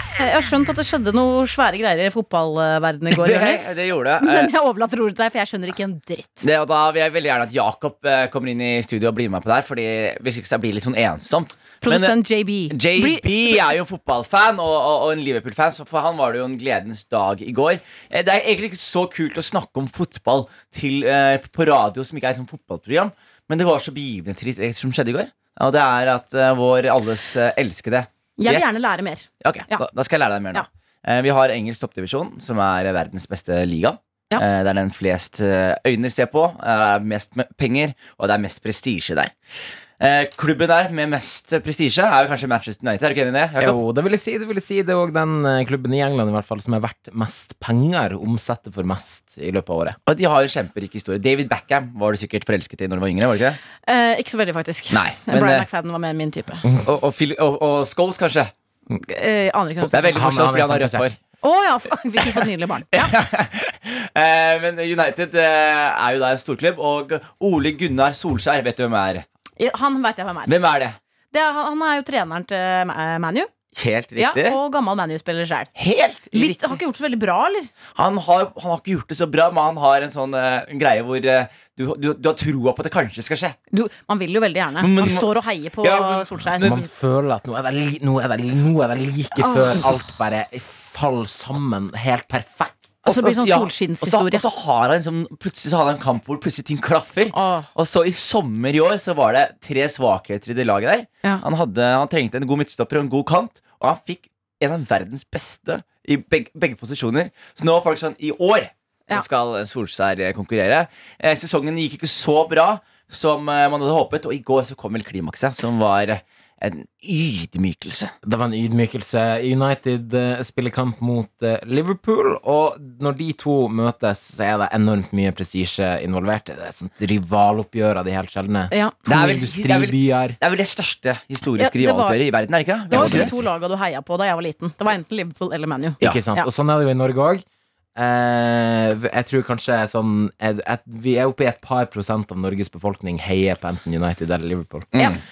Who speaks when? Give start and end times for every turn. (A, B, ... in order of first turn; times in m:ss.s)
0:00.1-0:06.5 A
0:03.1-0:04.5 B
0:06.4-0:12.2 B
0:11.8-0:13.7 A
0:12.7-0:28.7 B
0:28.4-0:29.8 A
0:29.4-0:39.3 B
0:40.0-0:43.8 B
0:43.6-0:50.0 C
0:50.1-0:53.6 B
0:53.8-0:56.6 A
0:54.9-0:55.6 B
0:56.8-0:58.5 B
0:58.9-1:00.2 A
0:59.9-1:01.2 B
1:00.0-1:01.1 C
1:01.4-1:03.1 A
1:02.9-1:09.2 B
1:09.6-1:10.5 A
1:10.5-1:11.0 B
1:11.3-1:13.5 A
1:13.7-1:14.6 B
1:14.2-1:15.7 A
1:15.8-1:16.8 B
1:16.3-1:17.7 A
1:17.9-1:23.6 B
1:23.7-1:26.7 A
1:24.8-1:26.8 B
1:26.6-1:33.0 C
1:29.4-1:29.8 A
1:33.0-1:58.1 B
1:33.0-1:34.4 A
1:37.3-1:37.7 A
1:58.2-2:10.4 C
2:08.7-2:09.0 A
2:09.1-2:13.3 B
2:11.6-2:12.2 A
2:12.9-2:16.5 A
2:12.9-2:13.4 C
2:16.0-2:17.4 C
2:18.0-2:25.0 C
2:24.9-2:25.2 B